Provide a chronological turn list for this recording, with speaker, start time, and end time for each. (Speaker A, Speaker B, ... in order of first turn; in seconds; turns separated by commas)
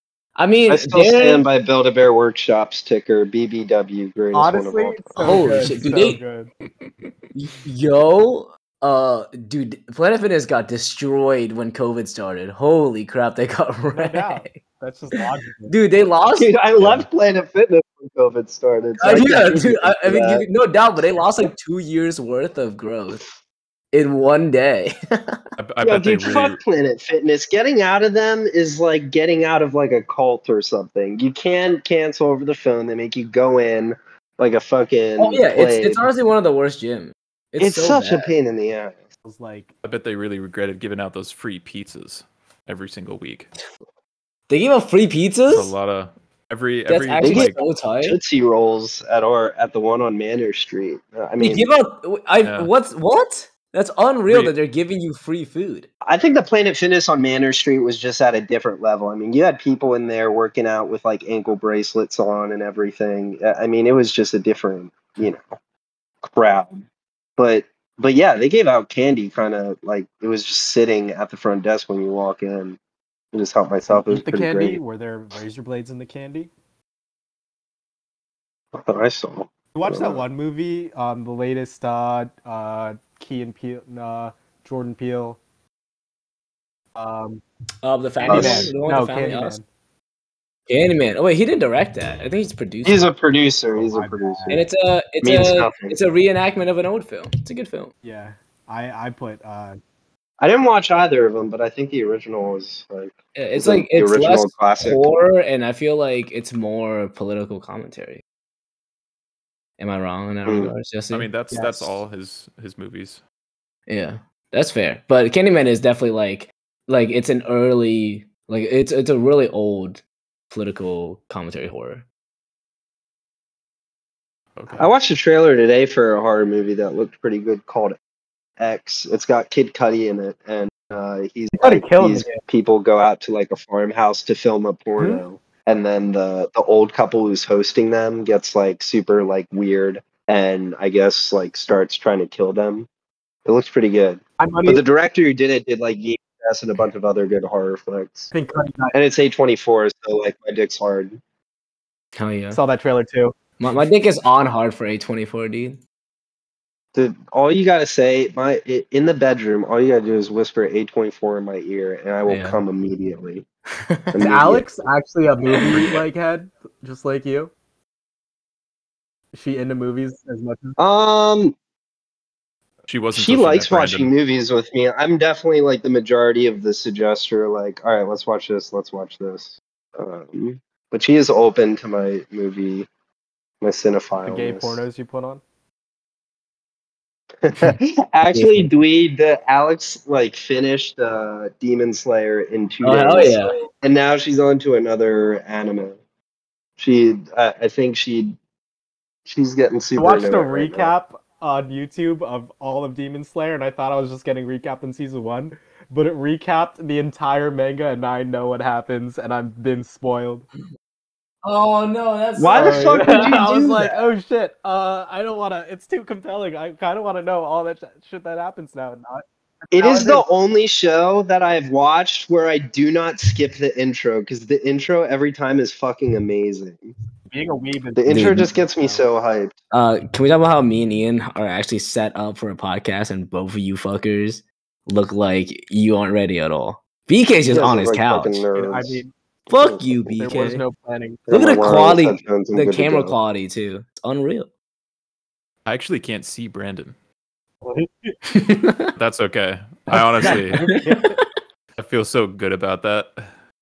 Speaker A: 0.4-1.4, Speaker B: 0.7-5.5, Speaker C: 4.3-6.5, Speaker A: 5.2-6.2, Speaker A: 7.3-14.6, Speaker C: 13.9-15.8, Speaker A: 15.7-16.5, Speaker B: 16.3-20.5, Speaker D: 16.8-17.1, Speaker A: 19.0-23.2, Speaker A: 23.9-25.4, Speaker D: 25.6-26.6, Speaker B: 25.8-36.0, Speaker A: 35.2-38.3, Speaker B: 37.6-39.0, Speaker C: 39.2-39.7, Speaker D: 39.8-43.5, Speaker A: 44.5-45.7, Speaker D: 45.5-47.6, Speaker A: 46.9-48.2, Speaker B: 47.2-51.7, Speaker A: 51.4-55.9, Speaker D: 52.4-52.7, Speaker D: 54.3-54.5, Speaker B: 56.0-65.5, Speaker B: 66.2-66.9, Speaker B: 67.4-72.8, Speaker B: 73.3-74.8, Speaker C: 73.9-76.5, Speaker B: 78.8-80.2, Speaker C: 79.7-85.4, Speaker C: 87.0-87.4, Speaker A: 87.8-89.6, Speaker C: 88.2-89.7, Speaker B: 88.2-88.7, Speaker A: 90.7-93.1, Speaker B: 92.8-94.7, Speaker C: 93.8-94.6, Speaker A: 94.5-97.9, Speaker B: 95.2-96.0, Speaker C: 98.0-99.8, Speaker B: 100.4-105.1, Speaker A: 103.4-108.2, Speaker A: 109.8-111.3, Speaker B: 110.5-110.7, Speaker D: 111.1-113.2, Speaker C: 111.5-112.0, Speaker A: 113.9-122.0, Speaker D: 124.6-124.9, Speaker B: 124.8-128.0, Speaker B: 128.6-142.9, Speaker C: 131.6-132.4, Speaker C: 135.0-135.2, Speaker B: 143.4-148.3, Speaker C: 144.4-144.8, Speaker C: 148.3-148.9, Speaker B: 148.9-151.2, Speaker A: 152.2-152.6, Speaker C: 152.5-153.4, Speaker A: 153.6-155.8, Speaker B: 156.9-163.5, Speaker A: 162.3-162.6, Speaker A: 163.8-164.2, Speaker B: 164.1-164.7, Speaker C: 164.2-167.5, Speaker D: 165.6-166.1, Speaker C: 169.3-170.8, Speaker B: 170.8-171.6, Speaker D: 172.9-174.1, Speaker B: 173.1-182.9, Speaker B: 183.6-184.8, Speaker C: 184.2-185.4, Speaker B: 187.4-196.0, Speaker A: 188.3-188.7, Speaker A: 192.8-193.6, Speaker B: 196.8-198.4, Speaker B: 199.3-200.9, Speaker C: 200.0-210.5, Speaker A: 211.4-213.9, Speaker B: 212.4-214.0, Speaker C: 212.5-220.2, Speaker B: 219.7-226.9, Speaker C: 227.3-229.1, Speaker B: 228.0-229.6, Speaker A: 228.1-228.5, Speaker A: 229.7-238.4, Speaker B: 237.5-239.0, Speaker C: 238.6-239.1, Speaker A: 239.5-240.6, Speaker B: 239.5-240.2, Speaker C: 240.2-241.2, Speaker B: 241.3-243.2, Speaker A: 241.3-244.5, Speaker D: 245.7-246.9, Speaker C: 247.6-248.1, Speaker A: 248.3-248.9, Speaker D: 249.0-250.6, Speaker C: 249.9-251.2, Speaker A: 250.2-251.2, Speaker D: 251.8-253.3